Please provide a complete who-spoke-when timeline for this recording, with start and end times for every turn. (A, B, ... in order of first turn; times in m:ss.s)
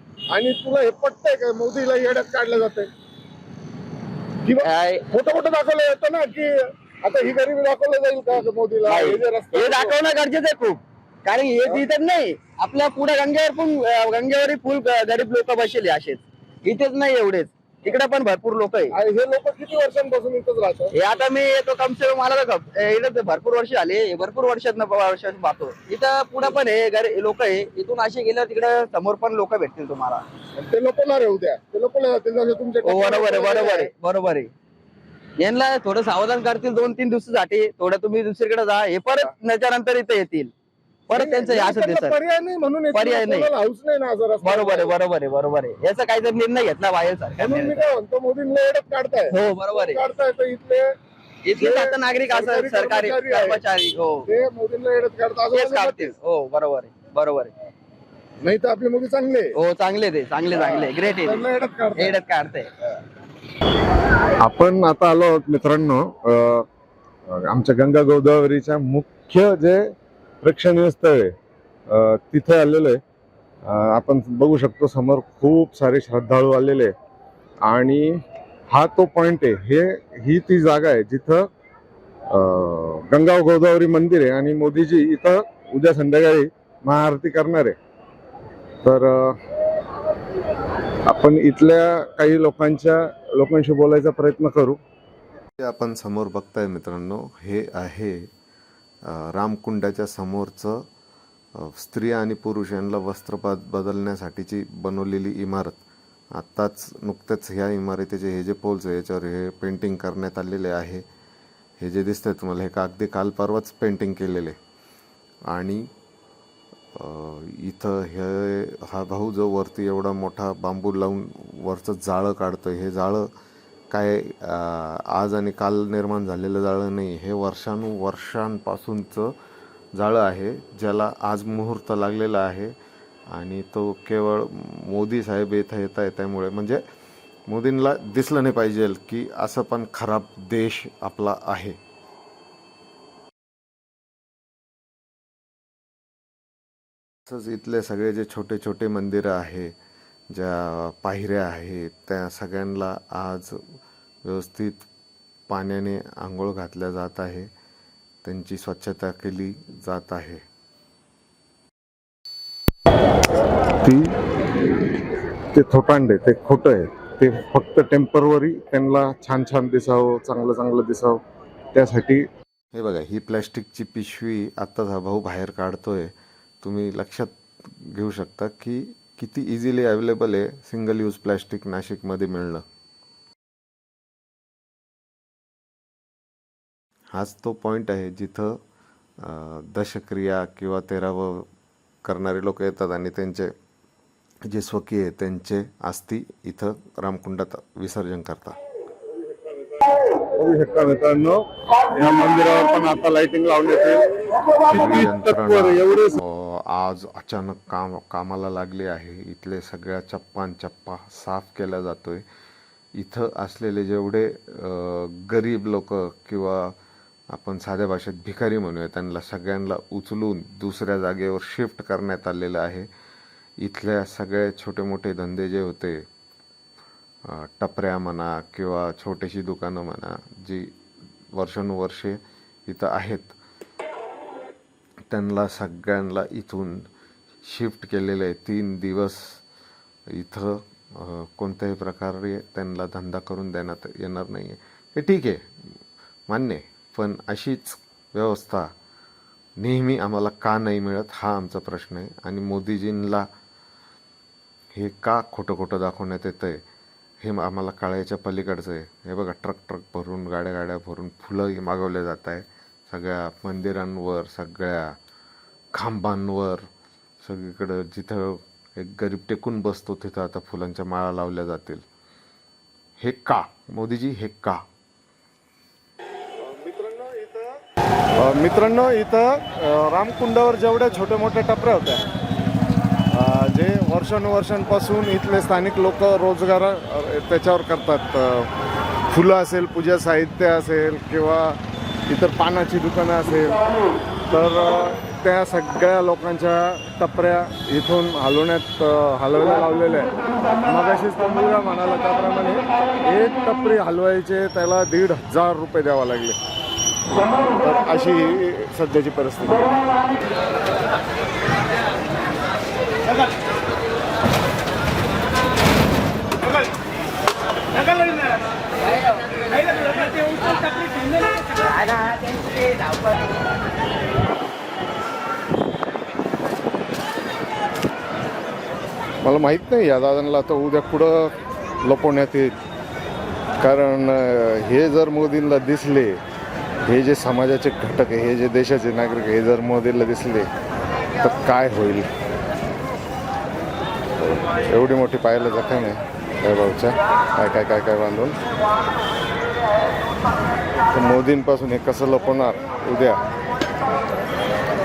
0:00.3-0:02.9 A
0:04.4-0:10.0 A
0:04.6-0:05.0 B
0:08.9-0:18.9 B
0:18.9-0:20.9 A
0:20.9-0:30.2 B
0:30.6-0:33.9 A
0:32.8-0:34.5 B
0:35.4-0:40.5 B
0:41.1-0:42.2 B
0:41.1-0:44.9 A
0:42.9-0:43.5 B
0:44.4-0:47.8 B
0:47.4-0:50.9 A
0:49.3-0:50.0 B
0:51.4-0:54.3 B
0:51.6-0:53.6 A
0:54.3-0:56.1 A
0:55.5-0:57.5 B
0:58.4-0:59.6 A
0:59.6-1:01.4 B
1:00.5-1:02.2 A
1:02.0-1:02.7 B
1:04.4-1:06.7 A
1:07.3-1:11.3 A
1:11.9-1:13.0 A
1:13.7-1:16.9 A
1:17.7-1:21.5 A
1:22.3-1:27.8 A
1:28.8-1:29.4 A
1:31.1-1:34.8 A
1:35.6-1:38.3 C
1:39.0-1:40.9 C
1:41.6-1:45.8 C
1:46.3-1:51.0 C
1:51.8-1:54.6 C
1:55.5-1:55.9 C
1:57.0-2:03.3 C
2:03.9-2:09.4 C
2:10.0-2:12.8 C
2:13.3-2:16.8 C
2:17.5-2:21.8 C
2:27.3-2:29.8 C
2:30.3-2:33.6 C
2:34.2-2:34.9 C
2:35.5-2:37.5 C
2:38.2-2:40.4 C
2:45.5-2:51.2 A
2:51.7-2:52.3 A
2:52.7-3:02.6 C
3:07.1-3:08.6 C
3:09.2-3:11.5 C
3:12.0-3:13.5 C
3:14.4-3:18.6 C
3:20.3-3:26.2 A
3:24.7-3:32.2 C
3:33.0-3:36.8 C
3:37.3-3:42.9 C
3:43.6-3:46.0 C
3:47.2-3:50.7 C
3:51.3-3:53.3 C
3:55.1-3:56.9 C
3:57.4-3:59.4 C
4:00.1-4:05.4 C
4:06.3-4:08.7 C
4:09.6-4:13.2 C
4:14.7-4:16.6 C
4:17.2-4:25.0 C
4:25.7-4:26.7 C
4:27.2-4:31.9 C
4:33.0-4:34.6 C
4:36.4-4:37.6 A
4:38.2-4:42.0 A
4:43.1-4:48.5 A
4:49.1-4:53.6 A
4:54.3-5:00.1 A
5:00.6-5:06.4 A
5:07.6-5:09.6 A
5:29.2-5:32.6 A
5:33.6-5:36.2 A
5:36.8-5:40.5 A
5:41.2-5:42.1 A
5:44.2-5:48.4 A
5:50.9-5:53.2 A